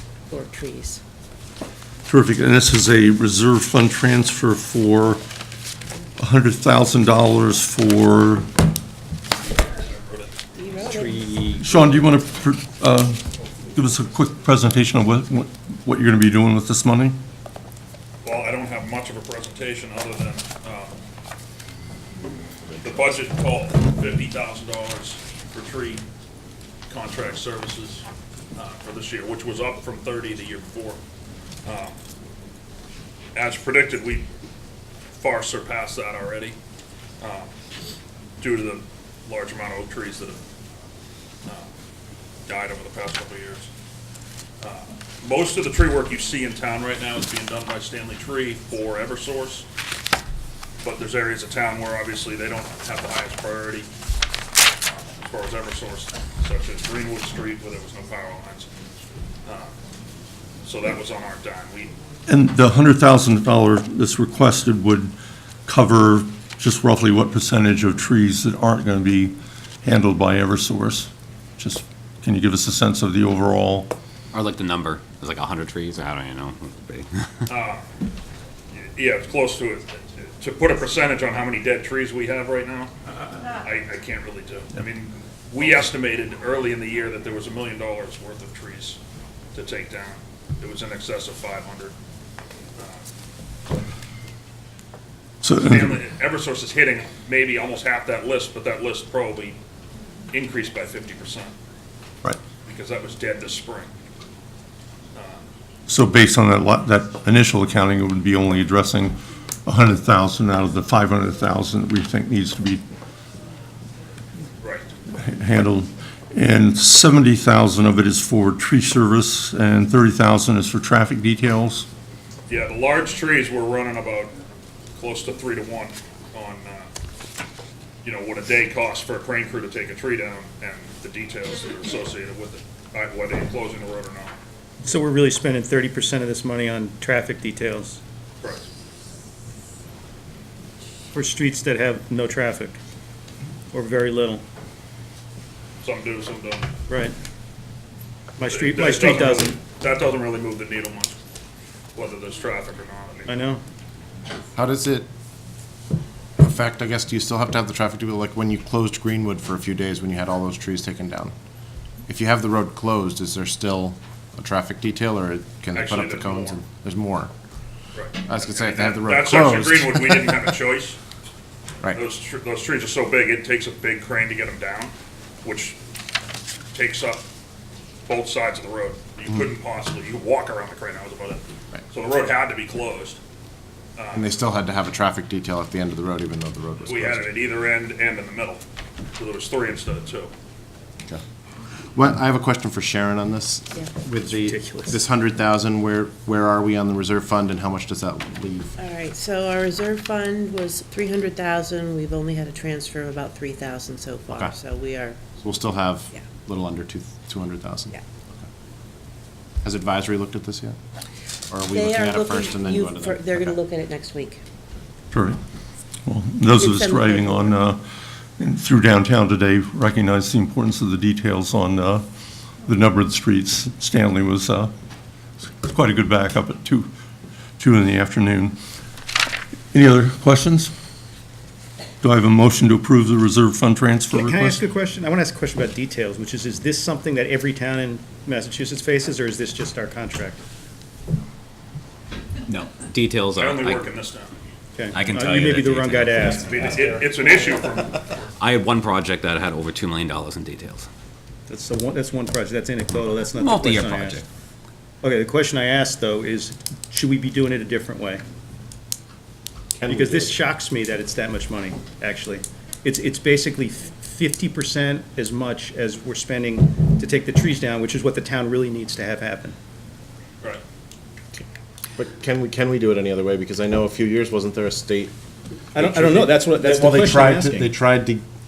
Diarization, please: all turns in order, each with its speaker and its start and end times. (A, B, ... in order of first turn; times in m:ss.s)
0:00.3-0:01.0 A
0:02.1-0:05.2 B
0:06.2-0:08.5 B
0:09.6-0:10.4 C
0:10.6-0:11.4 A
0:10.9-0:11.6 D
0:11.6-0:17.2 B
0:18.2-0:21.0 C
0:22.8-0:26.0 C
0:26.9-0:31.0 C
0:31.6-0:32.0 C
0:33.3-0:34.3 C
0:35.2-0:36.6 C
0:37.2-0:37.5 C
0:38.4-0:40.4 C
0:41.4-0:41.7 C
0:42.5-0:43.7 C
0:44.6-0:49.7 C
0:50.8-0:53.9 C
0:54.8-0:58.7 C
0:59.4-0:59.8 C
1:00.6-1:02.0 C
1:02.3-1:05.1 B
1:05.7-1:13.9 B
1:14.3-1:17.3 E
1:17.5-1:17.8 C
1:18.7-1:22.9 C
1:23.5-1:29.0 C
1:29.5-1:31.9 C
1:32.8-1:33.0 C
1:35.4-1:36.0 B
1:35.6-1:39.6 C
1:40.3-1:41.5 C
1:42.7-1:43.9 C
1:45.2-1:45.4 C
1:45.9-1:49.2 B
1:49.7-1:52.8 B
1:54.6-1:54.9 C
1:55.1-2:01.9 B
2:02.5-2:04.3 C
2:05.0-2:06.9 C
2:08.0-2:14.3 C
2:14.8-2:18.0 D
2:18.4-2:18.7 C
2:21.1-2:22.8 D
2:23.7-2:24.4 D
2:25.8-2:26.7 C
2:26.9-2:27.2 D
2:28.4-2:29.6 D
2:28.5-2:31.2 C
2:32.0-2:33.5 C
2:33.3-2:33.6 D
2:34.6-2:35.1 F
2:36.4-2:41.3 F
2:42.1-2:47.3 F
2:45.7-2:46.6 C
2:47.9-2:51.0 C
2:48.3-2:50.5 F
2:51.9-2:55.8 C
2:56.7-2:57.3 C
2:58.1-3:03.2 C
3:04.0-3:04.3 C
3:04.1-3:07.3 F
3:06.8-3:08.6 C
3:09.2-3:10.3 C
3:11.9-3:18.8 F
3:14.3-3:15.0 D
3:18.8-3:25.2 A
3:24.3-3:24.6 F
3:25.4-3:28.0 F
3:29.6-3:30.8 F
3:31.5-3:33.6 F
3:31.7-3:34.4 A
3:35.1-3:35.4 B
3:36.1-3:37.8 B
3:36.5-3:37.6 A
3:38.4-3:42.0 B
3:42.7-3:44.7 B
3:45.4-3:46.9 B
3:47.6-3:48.6 B
3:49.7-3:50.7 B
3:52.0-3:54.6 B
3:54.1-4:00.4 D
4:02.5-4:03.9 E
4:03.4-4:04.3 C
4:04.8-4:07.1 D
4:04.9-4:06.4 E
4:06.4-4:08.0 C
4:08.4-4:10.9 E
4:11.5-4:14.2 D
4:13.3-4:14.2 E
4:15.0-4:18.2 D
4:19.8-4:20.4 F
4:19.9-4:29.6 D
4:32.0-4:35.1 F
4:35.7-4:37.7 D
4:35.8-4:38.2 F